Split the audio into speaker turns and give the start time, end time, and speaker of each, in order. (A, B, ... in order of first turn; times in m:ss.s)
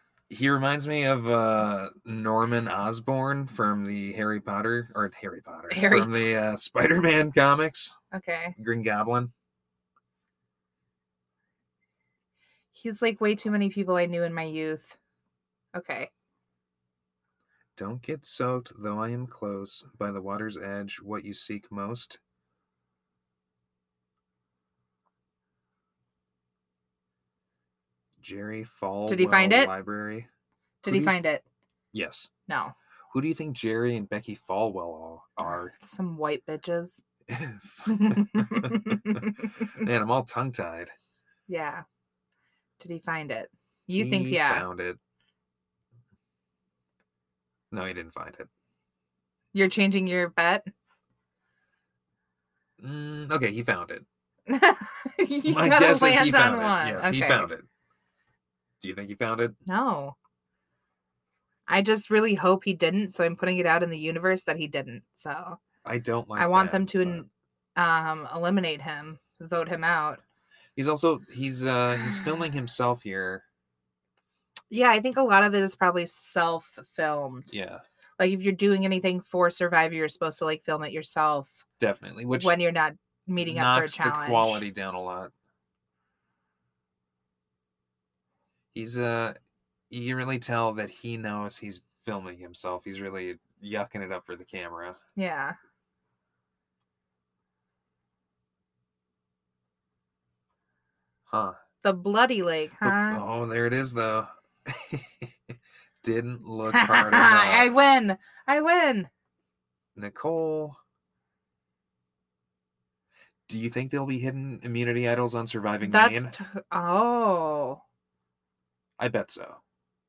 0:00.3-0:08.0 A
0:05.7-0:06.3 B
0:08.1-0:08.6 B
0:08.6-0:09.3 A
0:12.7-0:15.0 B
0:15.7-0:16.1 B
0:17.8-0:22.2 A
0:28.2-0:30.3 A
0:29.1-0:29.7 B
0:30.8-0:31.4 B
0:30.9-0:31.2 A
0:31.9-0:32.3 A
0:32.5-0:32.7 B
0:33.1-0:35.7 A
0:35.4-0:37.0 B
0:37.3-0:40.9 A
0:37.9-0:39.9 B
0:41.5-0:41.8 B
0:42.8-0:44.7 B
0:44.0-0:45.0 A
0:47.7-0:48.5 A
0:49.5-0:50.7 B
0:52.8-0:54.0 A
0:54.5-0:57.5 B
0:55.5-0:57.7 A
0:58.8-0:59.6 A
0:59.7-1:00.2 B
1:01.7-1:05.6 B
1:05.8-1:07.2 A
1:06.4-1:10.2 B
1:10.8-1:13.4 A
1:14.7-1:17.5 B
1:17.5-1:17.8 A
1:18.2-1:21.6 B
1:21.8-1:22.6 A
1:22.3-1:24.6 B
1:23.4-1:25.3 A
1:28.7-1:29.4 A
1:29.9-1:35.0 A
1:35.2-1:35.6 B
1:41.3-1:41.6 A
1:41.8-1:43.2 B
1:42.8-1:47.7 A
1:46.7-1:49.1 B
1:50.0-1:50.8 A
1:53.5-1:56.3 A
1:55.8-1:57.8 B
1:59.0-1:59.6 A